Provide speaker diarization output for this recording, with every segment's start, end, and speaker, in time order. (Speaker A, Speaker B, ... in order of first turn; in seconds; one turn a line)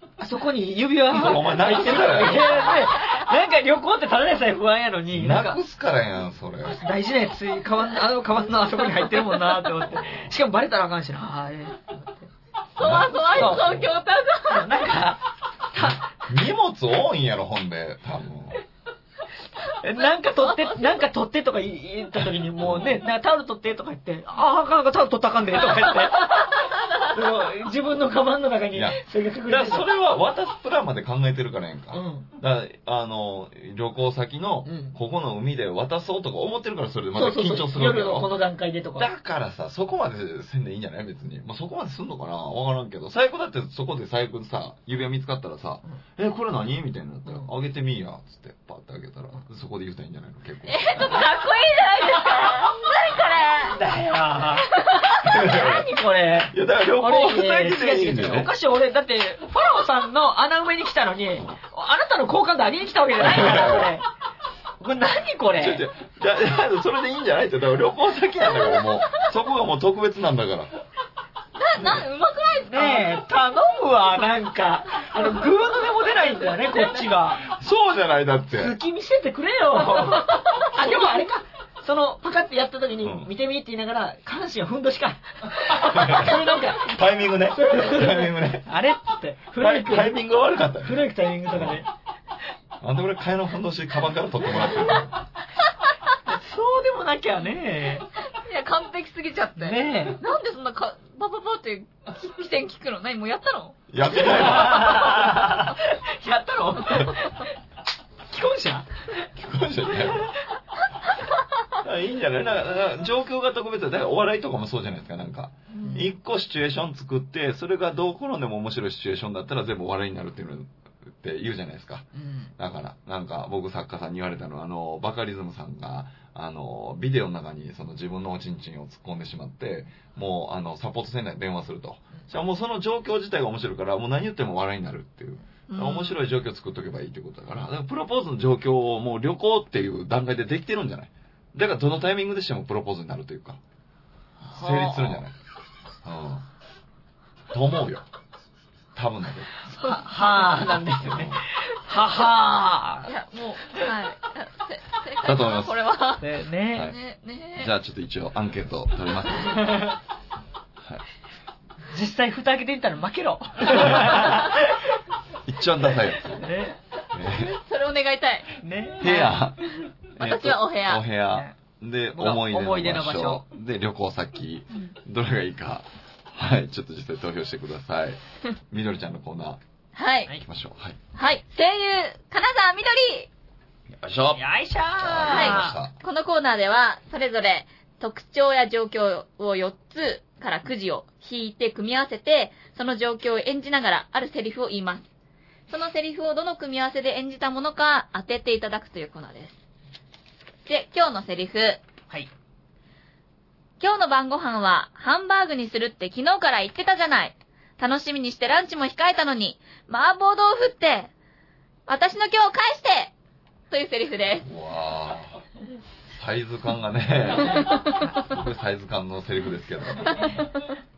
Speaker A: 0.2-5.6
Speaker B: 1.1-2.7
Speaker B: 5.1-6.8
Speaker A: 6.7-12.3
Speaker B: 9.9-10.3
Speaker B: 12.8-13.9
Speaker C: 12.8-14.9
Speaker A: 13.3-13.8
Speaker A: 14.5-16.1
Speaker B: 15.8-18.6
Speaker A: 19.7-29.9
Speaker C: 20.4-20.9
Speaker B: 22.6-23.0
Speaker B: 28.7-38.3
Speaker A: 31.9-32.3
Speaker A: 34.6-34.9
Speaker A: 37.1-39.1
Speaker B: 39.0-51.2
Speaker C: 50.7-53.8
Speaker A: 51.0-52.8
Speaker A: 53.6-64.1
Speaker C: 54.8-55.1
Speaker B: 55.2-55.9
Speaker B: 56.5-58.5
Speaker B: 63.2-63.9
Speaker A: 64.8-65.8
Speaker B: 65.5-70.7
Speaker C: 71.6-73.2
Speaker A: 72.7-77.4
Speaker B: 77.4-78.8
Speaker A: 78.6-87.0
Speaker C: 80.1-80.4
Speaker B: 83.0-83.3
Speaker B: 85.8-88.7
Speaker A: 87.5-90.2
Speaker B: 89.6-91.8
Speaker A: 90.8-91.9
Speaker B: 92.8-95.1
Speaker A: 96.2-98.1
Speaker C: 98.3-103.8
Speaker A: 99.6-100.2
Speaker B: 103.9-105.3
Speaker A: 104.2-107.5
Speaker A: 108.3-108.9
Speaker B: 109.3-110.3
Speaker B: 111.8-143.6
Speaker C: 115.7-116.0
Speaker A: 115.8-116.1
Speaker A: 122.1-122.5
Speaker C: 135.7-136.2
Speaker C: 144.5-145.2
Speaker B: 144.5-145.3
Speaker B: 146.0-146.4
Speaker B: 147.5-148.1
Speaker B: 148.9-149.6
Speaker C: 149.8-150.3
Speaker A: 149.8-153.1
Speaker B: 151.0-151.4
Speaker C: 153.1-157.7
Speaker B: 155.2-155.8
Speaker A: 156.2-156.9
Speaker B: 157.6-159.9
Speaker A: 159.6-159.9
Speaker B: 160.8-161.0
Speaker A: 161.9-164.8
Speaker B: 165.4-166.5
Speaker A: 166.4-166.8
Speaker B: 167.1-167.6
Speaker C: 167.3-169.5
Speaker A: 168.6-169.1
Speaker B: 169.0-179.6
Speaker C: 170.2-171.1
Speaker A: 172.1-173.4
Speaker C: 179.9-180.3
Speaker B: 180.4-181.0
Speaker C: 181.1-183.3
Speaker B: 183.9-184.4
Speaker A: 184.3-185.8
Speaker B: 185.0-185.9
Speaker C: 185.3-195.0
Speaker C: 195.7-199.6
Speaker C: 200.7-201.8
Speaker C: 203.8-211.1
Speaker C: 211.9-213.1
Speaker C: 213.7-214.5
Speaker B: 214.4-215.4
Speaker B: 216.1-220.4
Speaker C: 217.5-218.1
Speaker C: 220.1-220.7